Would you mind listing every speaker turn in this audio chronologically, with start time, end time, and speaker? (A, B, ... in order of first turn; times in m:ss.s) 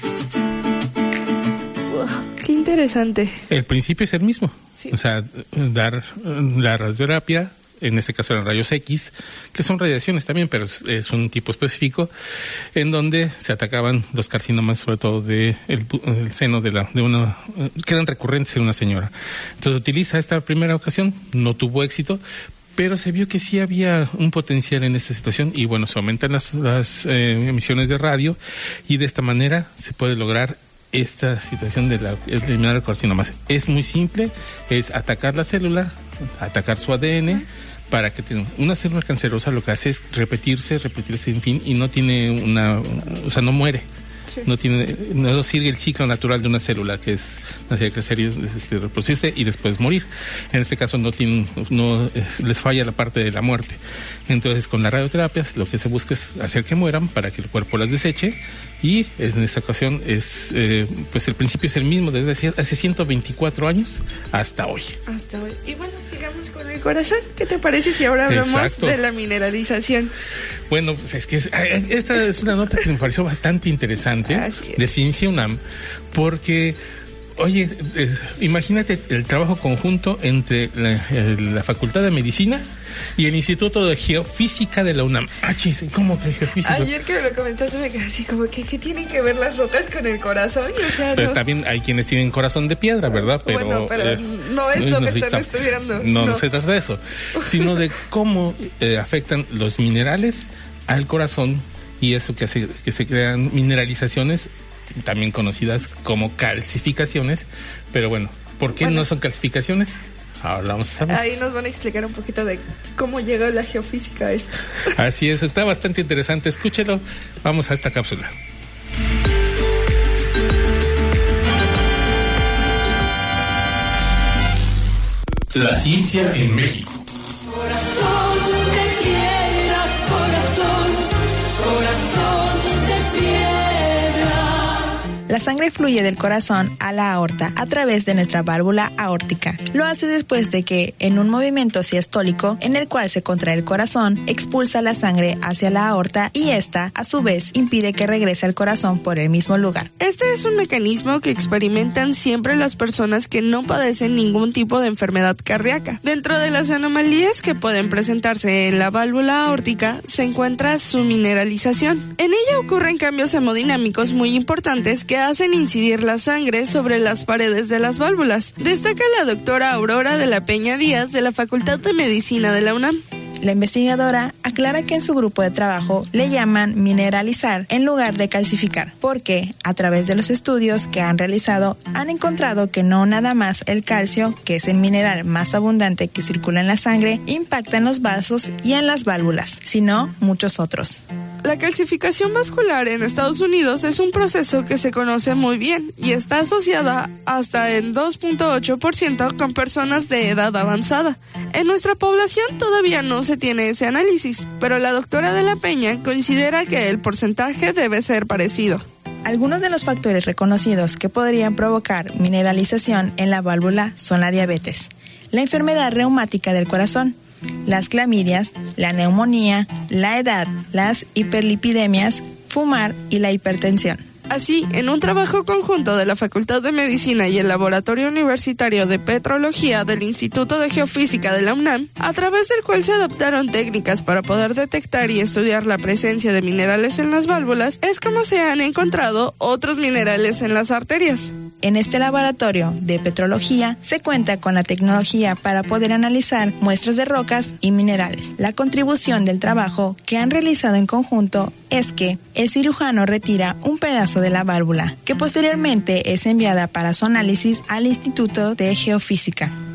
0:01.9-0:03.4 A
0:03.5-0:12.1 B
0:12.7-0:22.2 B
0:22.7-0:43.8 B
0:44.4-1:05.0 B
1:05.1-1:10.1 A
1:08.3-1:09.0 B
1:10.7-1:15.6 B
1:14.2-1:14.8 A
1:16.1-1:16.8 B
1:17.4-1:22.6 B
1:23.2-1:26.9 B
1:26.6-1:31.4 A
1:31.1-1:51.2 B
1:33.3-1:36.4 A
1:37.4-1:37.8 A
1:48.7-1:49.1 A
1:51.1-1:54.6 A
1:54.9-1:58.3 B
2:05.5-2:07.0 B
2:15.3-2:29.9 C
2:30.0-2:53.0 A
2:53.4-3:11.0 C
3:11.4-3:28.8 A
3:29.2-3:37.1 C
3:37.6-3:44.0 C
3:44.3-4:01.3 A
4:01.6-4:19.5 C